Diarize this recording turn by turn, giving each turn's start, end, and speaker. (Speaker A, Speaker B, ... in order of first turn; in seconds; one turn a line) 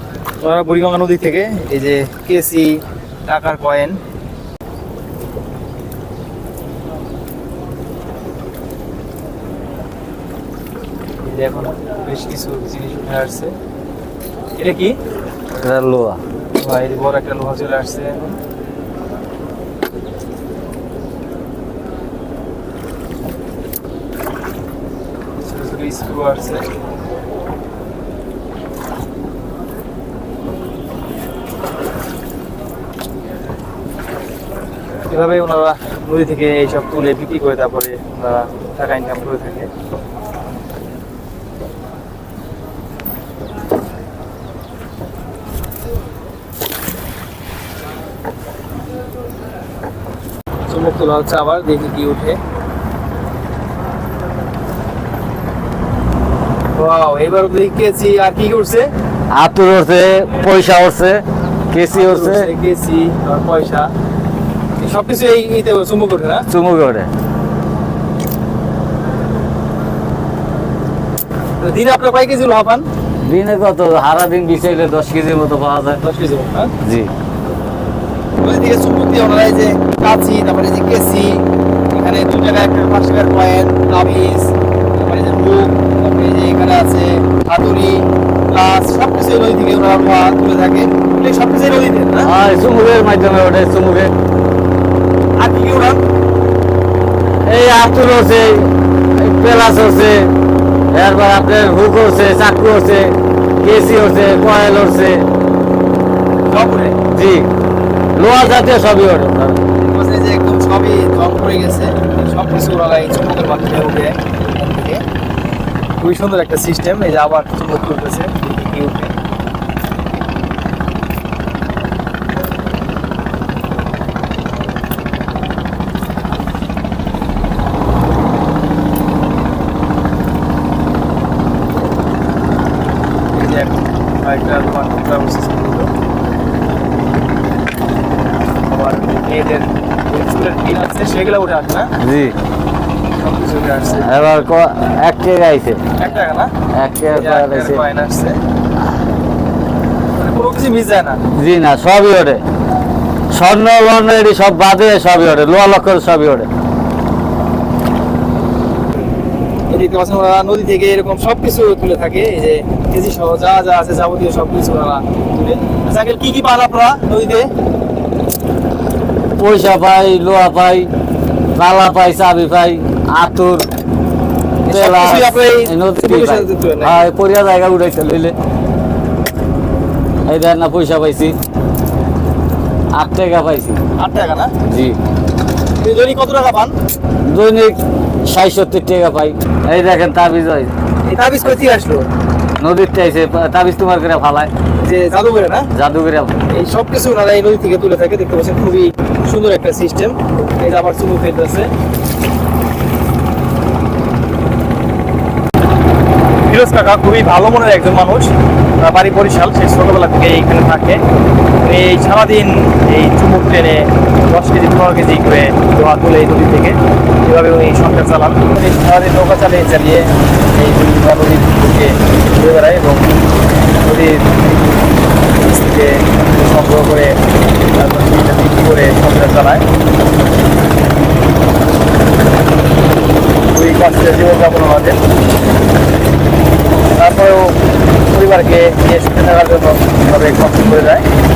Speaker A: 0.4-4.0
Speaker A: 11.2-13.5
Speaker A: 14.6-15.0
Speaker B: 15.6-16.2
Speaker A: 16.6-18.4
Speaker A: 25.4-26.6
Speaker A: 35.1-39.7
Speaker A: 50.7-52.4
Speaker A: 56.7-58.9
Speaker B: 59.3-62.5
Speaker A: 61.9-63.9
Speaker A: 64.8-66.5
Speaker B: 66.5-67.1
Speaker A: 71.6-72.9
Speaker B: 73.2-76.0
Speaker A: 76.0-76.7
Speaker B: 76.8-77.1
Speaker A: 78.4-92.3
Speaker B: 92.2-94.1
Speaker A: 95.4-96.0
Speaker B: 97.4-100.3
Speaker B: 100.9-105.2
Speaker A: 106.5-107.0
Speaker B: 107.1-107.5
Speaker B: 108.2-109.6
Speaker A: 109.8-115.0
Speaker A: 116.0-119.1
Speaker A: 133.3-135.9
Speaker A: 138.7-141.9
Speaker B: 142.0-142.3
Speaker A: 143.2-144.1
Speaker B: 144.0-145.8
Speaker A: 146.0-146.5
Speaker B: 146.8-147.8
Speaker A: 147.2-148.4
Speaker A: 150.1-151.2
Speaker B: 151.3-152.4
Speaker B: 153.3-156.5
Speaker A: 159.7-167.5
Speaker B: 169.4-170.9
Speaker B: 171.5-173.7
Speaker A: 174.6-177.1
Speaker B: 174.7-178.3
Speaker B: 180.3-181.3
Speaker B: 182.9-183.8
Speaker A: 184.0-184.5
Speaker B: 184.7-185.0
Speaker A: 185.8-186.8
Speaker B: 187.3-190.7
Speaker A: 191.1-192.1
Speaker B: 192.6-194.5
Speaker A: 194.8-195.7
Speaker B: 195.7-196.4
Speaker A: 196.5-201.7
Speaker A: 206.4-211.0
Speaker A: 211.6-223.1
Speaker A: 223.8-224.4
Speaker A: 225.4-227.2
Speaker A: 227.7-229.6
Speaker A: 233.5-235.0
Speaker A: 236.9-237.6
Speaker A: 238.1-241.1